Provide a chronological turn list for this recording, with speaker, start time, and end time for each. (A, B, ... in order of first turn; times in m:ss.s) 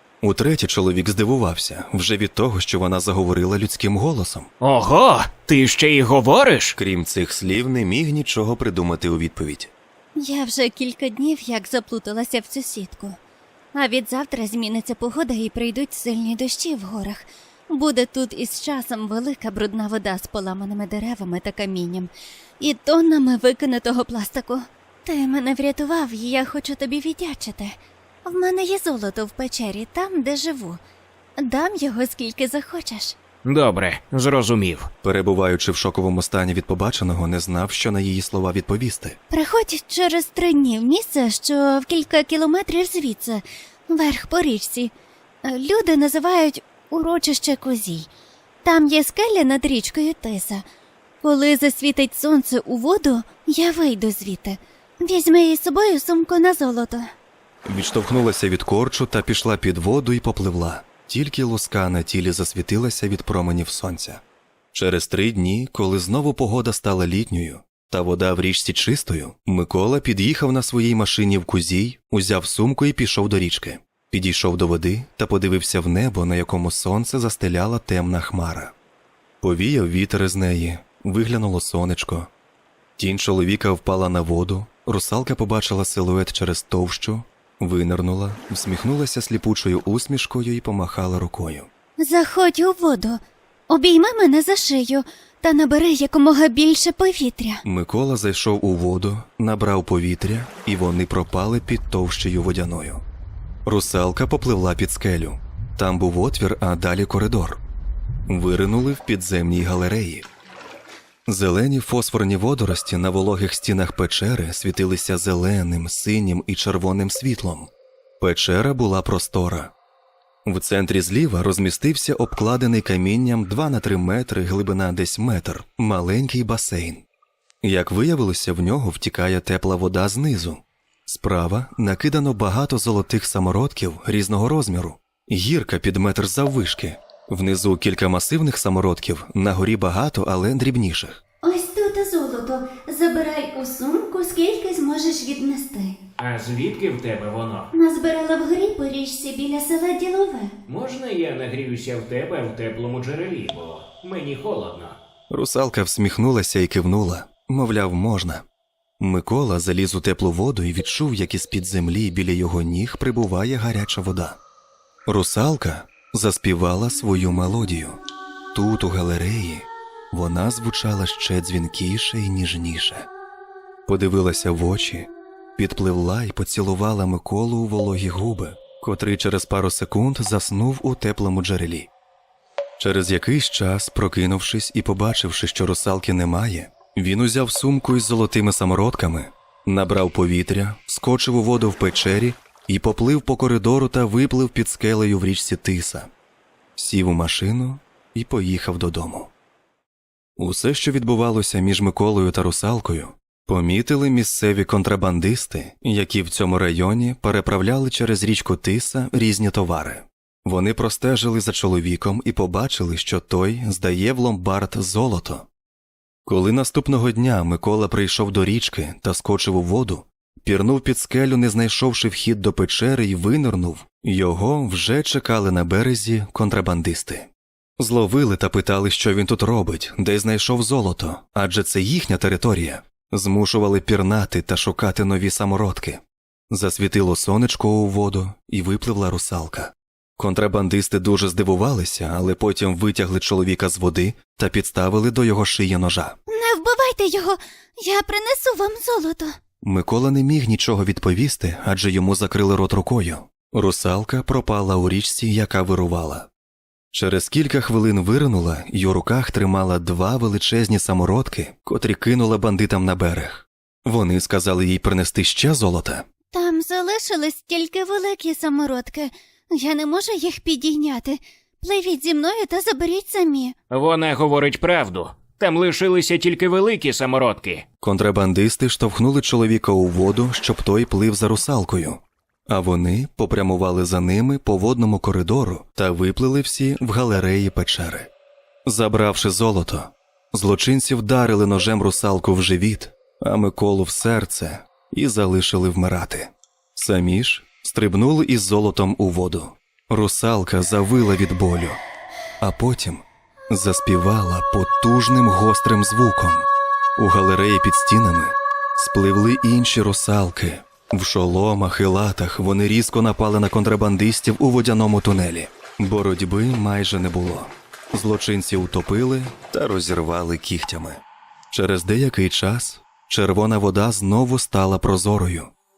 0:00.2-0:04.5 A
0:04.6-0:06.7 B
0:06.8-0:09.7 A
0:10.2-0:13.2 C
0:13.7-0:30.8 C
0:31.4-0:33.2 C
0:33.4-0:34.9 B
0:35.0-0:39.2 A
0:39.3-0:44.9 C
0:45.4-0:48.1 C
0:48.6-0:50.6 C
0:51.2-0:57.1 C
0:57.6-1:04.2 A
1:04.7-1:18.7 A
1:19.4-1:22.3 A
1:23.0-1:31.7 A
1:32.0-1:37.6 C
1:37.6-1:43.0 A
1:43.6-1:47.6 A
1:48.3-1:50.3 A
1:51.3-1:59.7 A
2:00.4-2:07.0 A
2:07.6-2:21.2 A
2:21.4-2:26.0 C
2:26.2-2:27.7 B
2:27.7-2:30.5 C
2:30.7-2:35.0 B
2:35.3-2:38.4 A
2:39.0-2:44.4 A
2:45.1-2:48.0 A
2:48.5-2:53.1 A
2:53.9-3:01.9 A
3:02.8-3:16.1 A
3:16.8-3:19.3 A
3:20.4-3:35.5 A
3:36.2-4:06.2 A
4:06.3-4:09.4 C
4:09.6-4:16.3 A
4:16.9-4:26.0 A
4:26.3-4:33.5 C
4:33.7-4:37.6 B
4:37.8-4:48.1 A
4:48.6-5:01.8 A
5:02.4-5:25.5 A